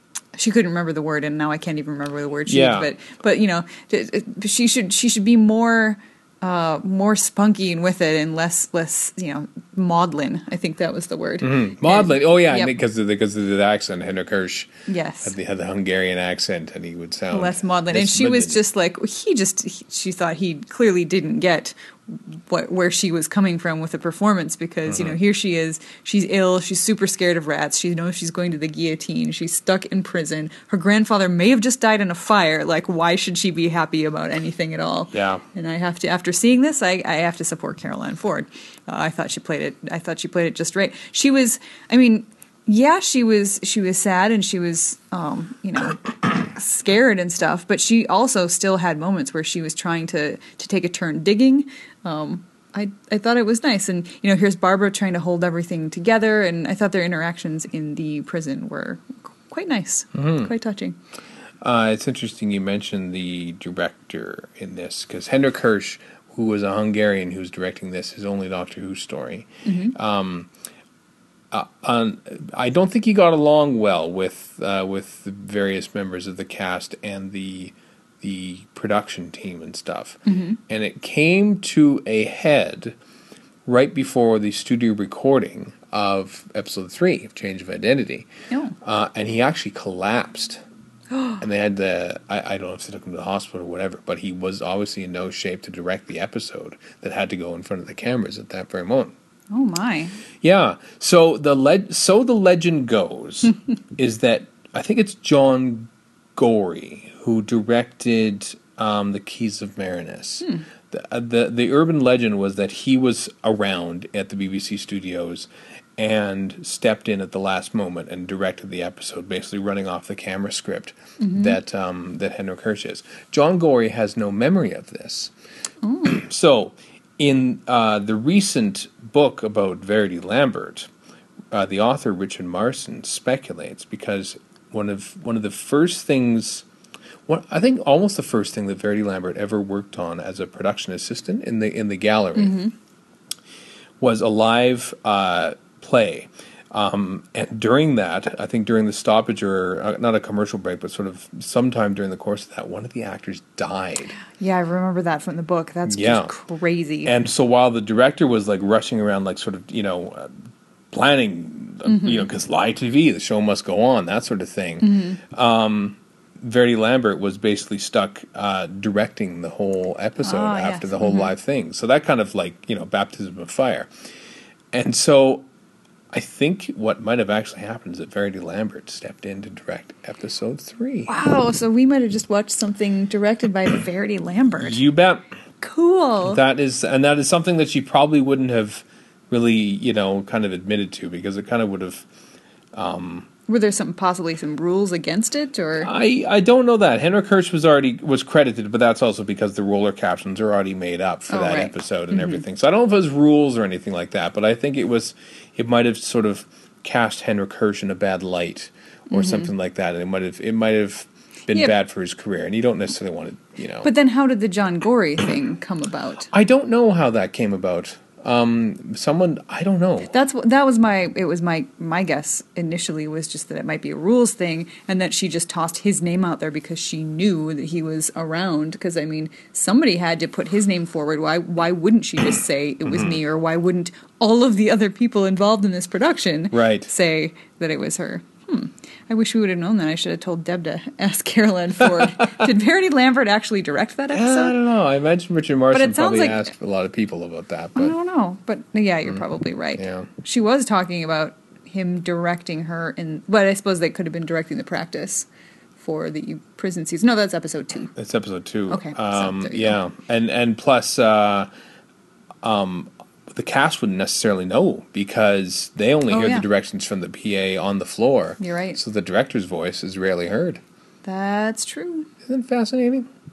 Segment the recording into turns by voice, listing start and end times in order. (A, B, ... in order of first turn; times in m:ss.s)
0:00.3-0:12.7 A
0:02.5-0:02.9 B
0:11.4-0:14.7 B
0:14.9-0:15.4 A
0:15.2-0:18.6 B
0:17.3-1:01.0 A
0:24.9-0:25.2 B
0:35.1-0:35.4 B
1:00.1-1:00.5 B
1:01.6-1:10.5 B
1:09.6-1:10.0 A
1:11.5-1:22.9 B
1:20.2-1:20.6 A
1:23.6-1:28.3 B
1:28.5-1:28.7 A
1:28.8-1:30.6 B
1:31.1-1:31.4 A
1:31.4-1:39.1 B
1:39.5-1:40.2 A
1:40.4-2:05.3 B
2:01.2-2:01.6 A
2:05.8-2:06.2 A
2:06.1-2:10.9 B
2:11.5-2:16.6 B
2:17.3-2:22.6 B
2:22.4-2:22.7 A
2:24.0-2:34.2 B
2:34.3-2:37.1 A
2:35.9-2:36.3 B
2:37.0-2:40.3 B
2:40.9-2:53.9 B
2:41.8-2:42.3 A
2:44.8-2:45.2 A
2:50.2-2:51.3 A
2:54.7-2:55.4 B
2:56.1-3:01.1 B
3:01.1-3:04.8 A
3:04.6-3:05.2 B
3:05.6-3:06.4 A
3:06.2-3:12.0 B
3:12.7-3:13.3 B
3:13.5-3:15.9 A
3:15.8-3:33.9 B
3:21.3-3:22.4 A
3:29.1-3:29.5 A
3:33.8-3:36.3 A
3:36.3-3:40.1 B
3:40.1-4:04.6 A
3:52.8-3:53.2 B
3:56.5-3:56.9 B
4:04.1-4:07.9 B
4:05.7-4:06.5 A
4:07.8-4:17.9 A
4:09.8-4:10.1 B
4:18.0-4:21.5 B
4:18.7-4:19.8 A
4:22.4-4:30.6 B
4:26.1-4:26.5 A
4:28.4-4:28.8 A
4:31.0-4:32.1 A
4:32.2-4:33.1 B